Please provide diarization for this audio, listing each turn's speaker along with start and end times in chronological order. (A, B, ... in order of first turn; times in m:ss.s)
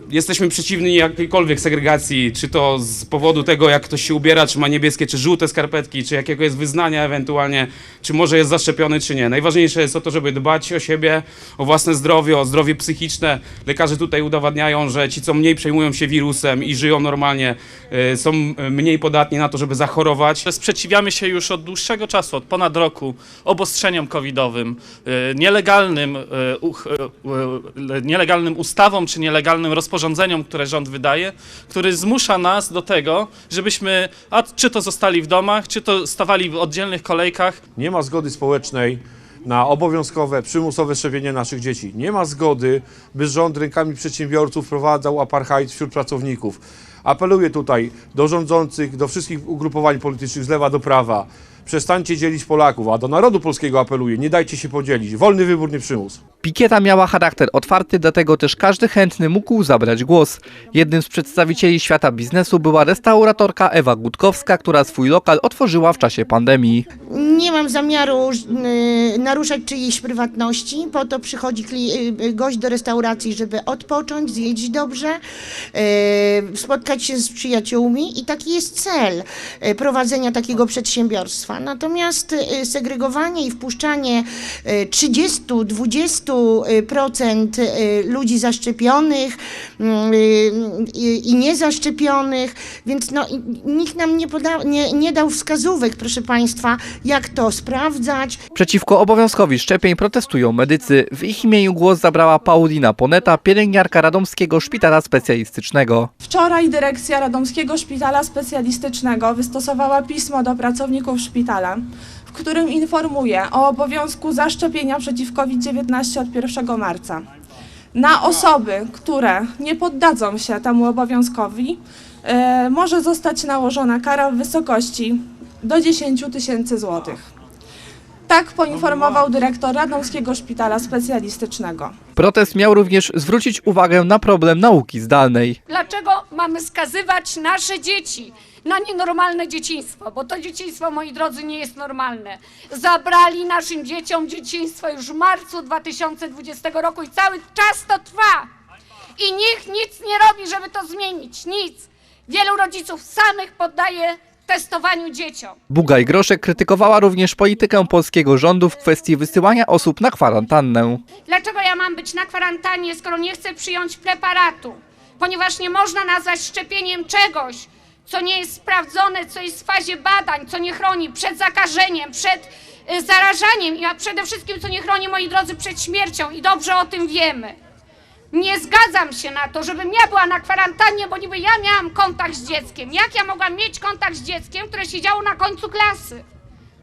0:00.1-0:20.5 A
0:20.5-0:37.6 B
0:37.8-0:56.2 C
0:56.4-1:06.9 D
1:07.1-1:15.2 E
1:15.7-1:38.4 E
1:38.6-1:46.1 D
1:46.2-1:57.2 F
1:57.9-2:07.2 F
2:08.3-2:11.9 F
2:12.2-2:15.6 D
2:15.7-2:28.5 G
2:29.2-2:35.6 G
2:35.7-2:41.0 D
2:41.3-2:57.6 G
2:58.3-3:06.2 G